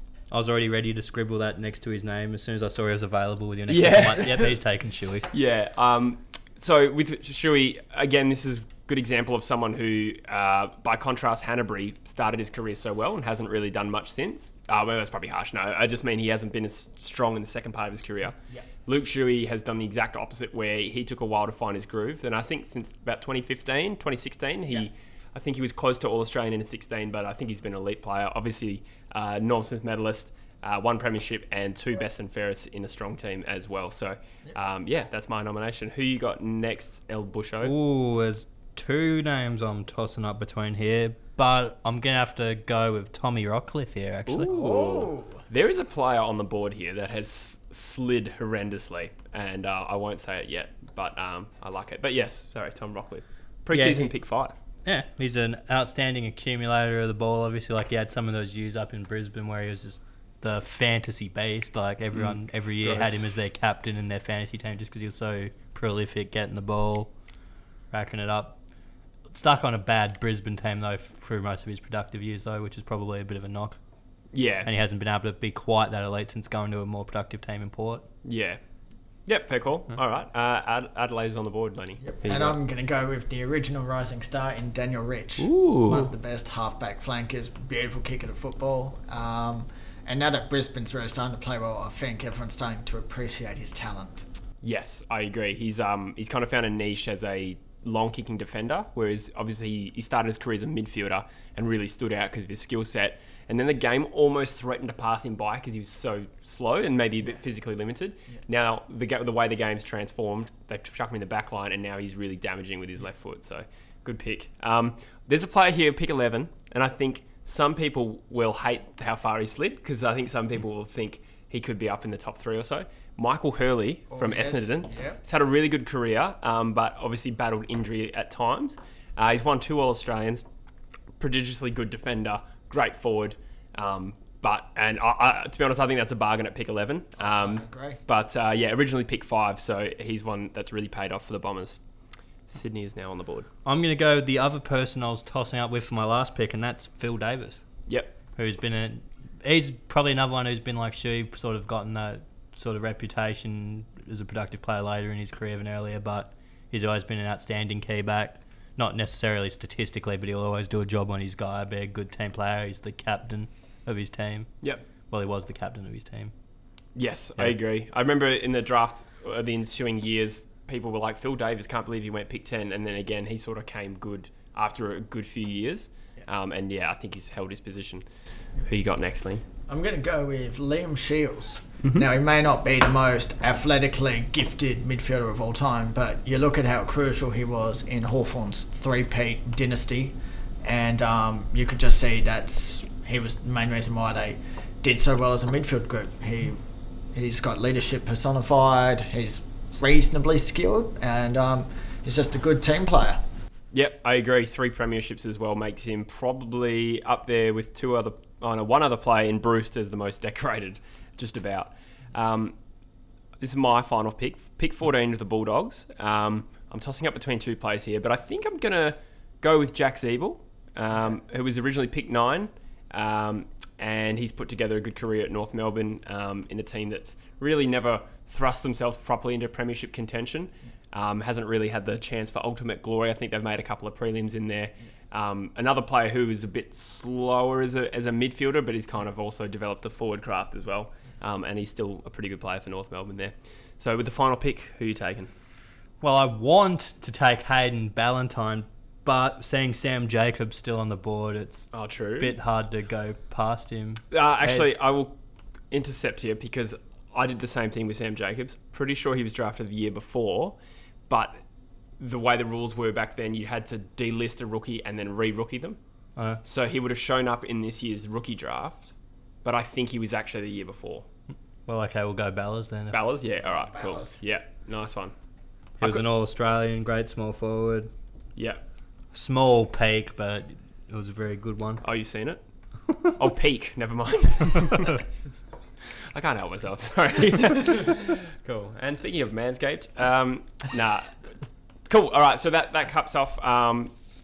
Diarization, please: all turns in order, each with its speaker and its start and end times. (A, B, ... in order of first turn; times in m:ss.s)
0:00.3-0:05.3 A
0:03.7-0:04.5 B
0:05.3-0:37.7 B
0:37.6-0:44.5 A
0:44.3-0:54.6 B
0:44.5-0:45.4 C
0:53.7-0:54.1 A
0:54.8-1:07.1 A
1:02.1-1:03.2 B
1:07.9-1:08.6 A
1:09.3-1:13.8 A
1:14.3-1:14.7 B
1:14.6-1:18.0 A
1:18.2-1:18.6 B
1:19.3-1:22.6 B
1:22.0-1:34.2 C
1:25.4-1:26.1 B
1:34.6-2:10.4 B
2:04.1-2:05.2 C
2:11.2-2:21.8 B
2:17.4-2:18.0 C
2:22.5-2:23.5 B
2:23.6-2:27.6 A
2:27.9-2:28.1 B
2:28.4-2:44.5 A
2:45.1-2:46.3 A
2:47.0-2:58.0 B
2:58.6-2:59.4 B
2:59.7-3:16.6 C
3:17.1-3:23.2 C
3:23.7-3:32.6 B
3:33.4-4:05.3 B
4:06.0-4:14.7 A
4:11.7-4:12.4 B
4:14.1-4:15.2 B
4:15.7-4:20.6 B
4:21.1-4:21.4 B
4:22.0-4:25.8 B
4:26.4-4:28.9 B
4:29.4-4:31.1 B
4:31.7-4:33.0 A
4:32.9-4:35.1 B
4:33.6-4:34.2 C
4:35.8-4:37.9 A
4:38.4-4:38.6 B
4:39.1-4:41.8 A
4:41.8-4:42.4 B
4:43.1-4:45.0 B
4:46.1-4:51.4 B
4:51.9-4:53.9 B